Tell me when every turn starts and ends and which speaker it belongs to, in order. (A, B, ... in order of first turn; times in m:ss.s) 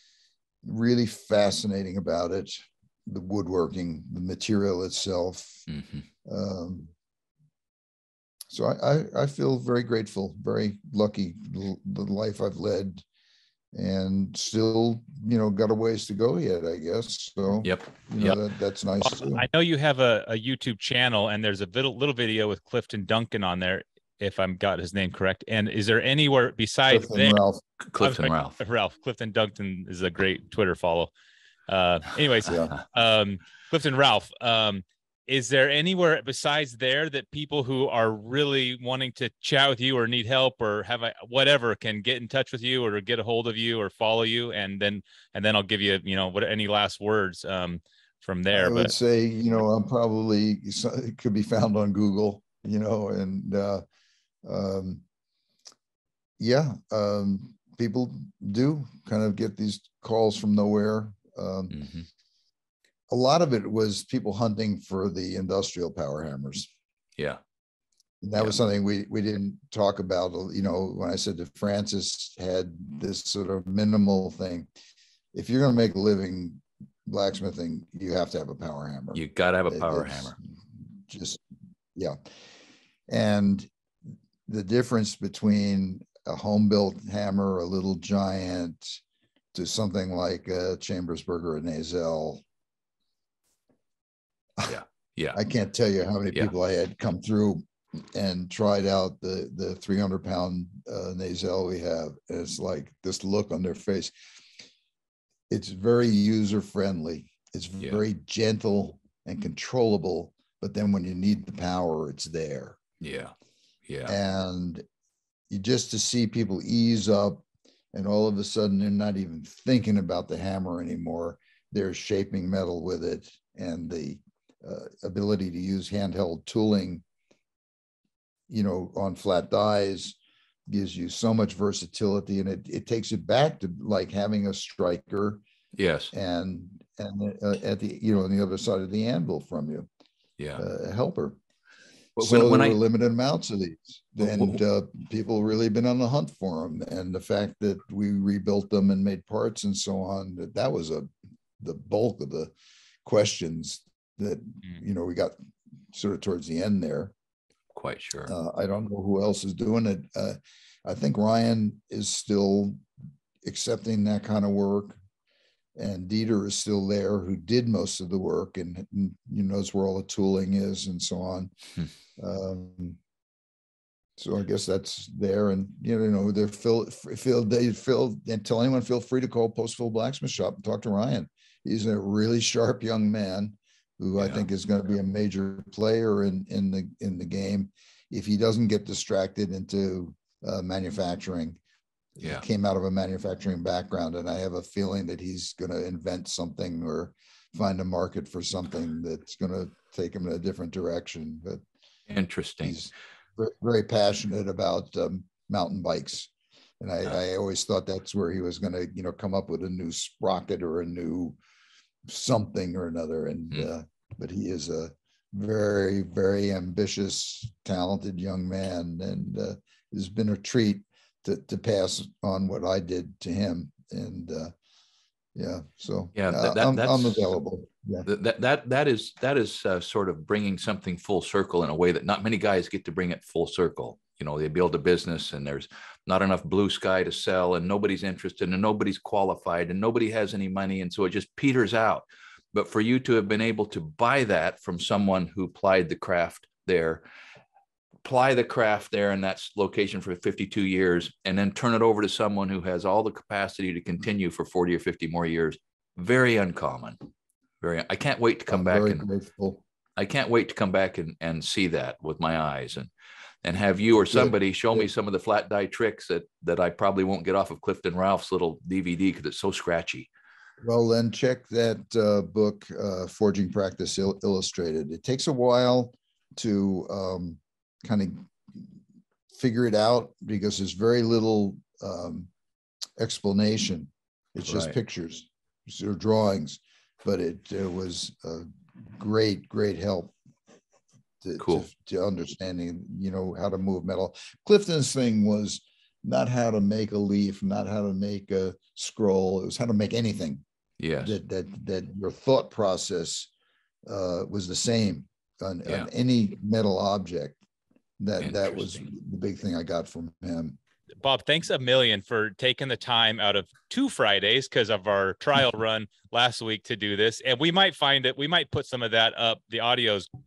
0:00.6-0:05.6 A
0:05.7-0:06.1 B
0:06.3-0:06.9 A
0:08.5-0:13.0 A
0:13.7-0:19.5 A
0:17.6-0:18.4 B
0:19.0-0:27.4 C
0:26.9-0:27.6 A
0:27.9-0:28.6 B
0:28.0-0:31.1 C
0:31.7-0:48.9 C
0:32.5-0:32.8 A
0:48.5-0:53.8 A
0:54.4-0:55.0 A
0:56.4-1:01.8 A
1:01.7-1:02.1 B
1:03.1-1:06.7 A
1:08.2-1:14.7 A
1:15.3-1:21.4 A
1:19.1-1:20.4 B
1:23.1-1:23.7 A
1:24.5-1:29.0 A
1:29.5-1:32.4 A
1:34.7-1:35.4 B
1:35.3-1:44.1 A
1:45.5-1:52.8 A
1:53.0-1:53.3 B
1:53.9-1:54.2 B
1:54.1-1:54.8 A
1:55.5-2:07.0 A
2:08.5-2:10.2 A
2:10.7-2:15.4 A
2:15.8-2:16.1 B
2:16.1-2:19.9 A
2:20.4-2:20.6 B
2:20.6-2:21.4 A
2:22.2-2:22.8 B
2:22.2-2:31.1 A
2:24.2-2:24.6 B
2:31.6-2:32.5 A
2:33.0-2:35.4 A
2:35.9-2:37.1 A
2:37.8-2:38.3 B
2:38.3-2:42.8 A
2:43.4-2:45.0 A
2:45.8-2:51.5 A
2:52.2-2:53.0 A
2:54.2-3:11.6 A
3:04.2-3:04.4 B
3:12.2-3:21.6 A
3:22.1-3:22.8 B
3:22.6-3:26.3 A
3:26.8-3:31.4 A
3:32.1-3:44.5 A
3:45.4-3:48.1 A
3:46.2-3:47.3 B
3:48.0-4:07.0 B
4:08.0-4:17.0 B
4:17.6-4:19.1 B
4:18.5-4:19.6 A
4:20.0-4:22.9 B
4:23.4-4:30.1 B
4:24.1-4:24.9 A
4:30.6-4:38.8 A
4:39.3-4:42.3 A
4:43.0-4:50.1 A
4:44.5-4:44.8 B
4:51.2-5:00.4 A
4:51.4-4:51.7 B
5:00.8-5:01.2 B
5:01.0-5:03.3 A
5:03.9-5:07.4 A
5:08.0-5:10.6 A
5:08.2-5:08.8 B
5:11.0-5:20.1 C